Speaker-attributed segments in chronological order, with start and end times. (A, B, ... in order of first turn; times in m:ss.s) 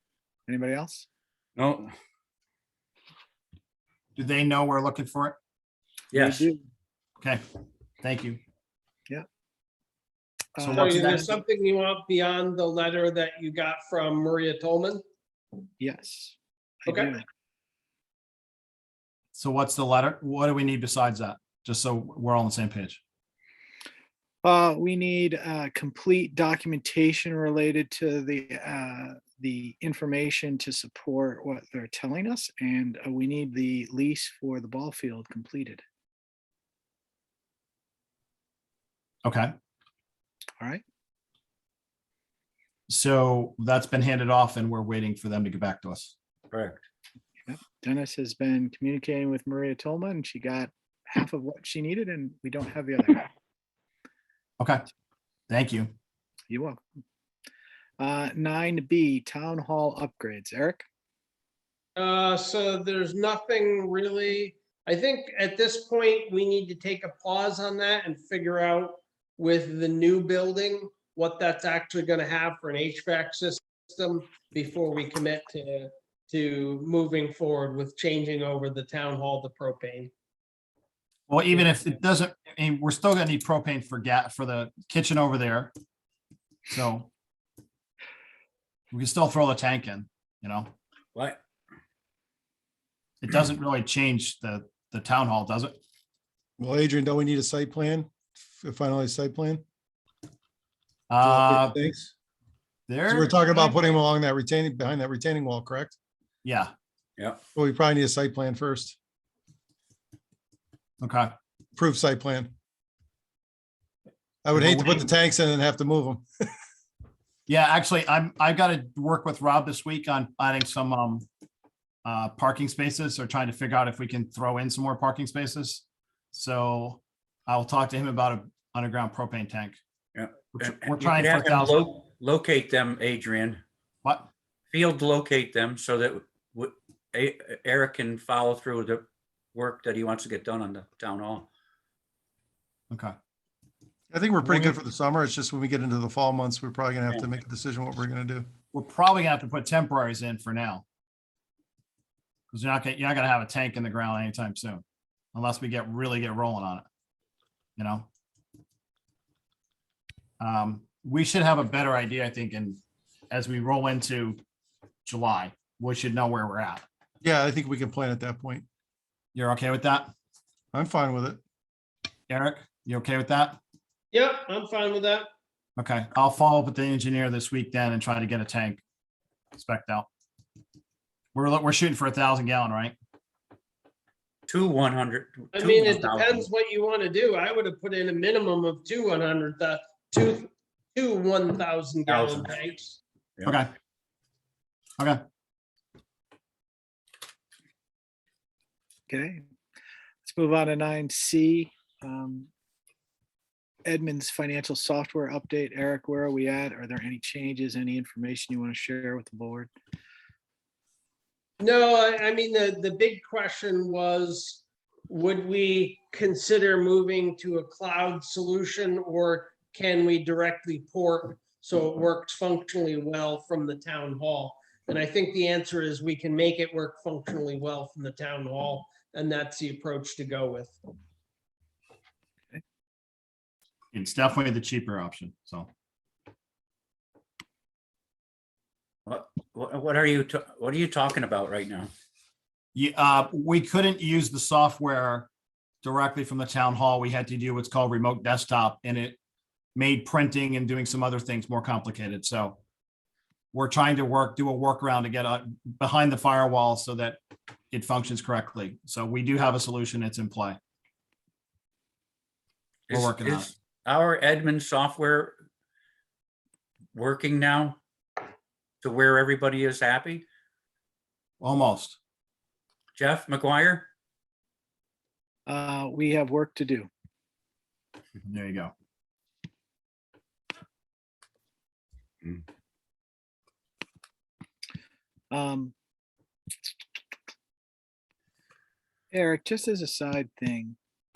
0:00.5-0:01.1 A
0:01.6-0:01.9 B
0:04.2-0:05.4 C
0:06.1-0:06.5 B
0:06.1-0:06.6 A
0:08.0-0:08.4 C
0:10.6-0:11.3 A
0:10.6-0:11.3 C
0:10.8-0:15.0 D
0:15.8-0:17.2 A
0:16.9-0:17.1 D
0:19.4-0:23.0 C
0:24.4-0:35.8 A
0:39.2-0:39.5 C
0:42.9-0:46.1 C
0:46.5-0:46.8 B
0:47.4-0:53.3 A
0:55.5-0:55.9 C
0:56.5-0:56.8 A
0:58.0-1:00.8 A
1:02.0-1:20.1 D
1:21.3-1:25.7 C
1:26.7-1:27.1 C
1:28.9-1:30.7 C
1:33.2-1:35.8 C
1:36.6-1:39.6 E
1:41.1-1:41.8 C
1:41.2-1:42.1 E
1:42.9-1:43.5 C
1:43.1-1:46.0 E
1:46.4-1:46.7 C
1:47.5-1:49.0 E
1:51.0-1:51.3 C
1:51.8-1:52.5 E
1:54.4-1:56.2 E
1:54.5-1:55.1 C
1:57.5-2:01.2 C
2:02.0-2:09.8 C
2:10.1-2:13.6 B
2:10.5-2:11.9 C
2:14.0-2:14.3 C
2:14.7-2:21.5 B
2:22.9-2:23.2 C
2:24.1-2:28.5 E
2:24.4-2:24.7 C
2:28.7-2:30.8 C
2:32.5-2:34.8 C
2:35.3-2:36.8 C
2:37.8-2:38.1 C
2:40.4-2:42.8 C
2:43.3-2:44.4 C
2:45.0-2:46.8 C
2:47.2-2:48.6 E
2:49.3-2:50.1 C
2:50.7-2:51.4 E
2:52.3-2:53.6 C
2:54.1-2:55.3 D
2:55.8-2:58.8 C
2:59.5-3:00.1 C
3:01.3-3:02.9 C
3:04.5-3:06.4 B
3:05.5-3:13.0 D
3:12.1-3:12.6 B
3:13.4-3:13.7 C
3:19.1-3:19.4 A
3:20.2-3:22.5 A
3:23.8-3:29.7 A
3:31.6-3:50.8 D
3:53.9-3:55.7 C
3:59.0-4:01.9 B
4:02.7-4:05.3 C
4:05.8-4:09.2 C
4:09.7-4:12.6 C
4:13.5-4:17.2 C
4:17.7-4:20.6 C
4:22.9-4:25.4 B
4:22.9-4:23.5 C
4:26.9-4:27.8 B
4:28.8-4:30.2 B
4:31.4-4:32.0 C
4:32.9-4:33.9 B
4:35.4-4:36.9 A
4:38.2-4:38.7 C
4:45.3-4:45.7 A
4:49.1-4:50.8 A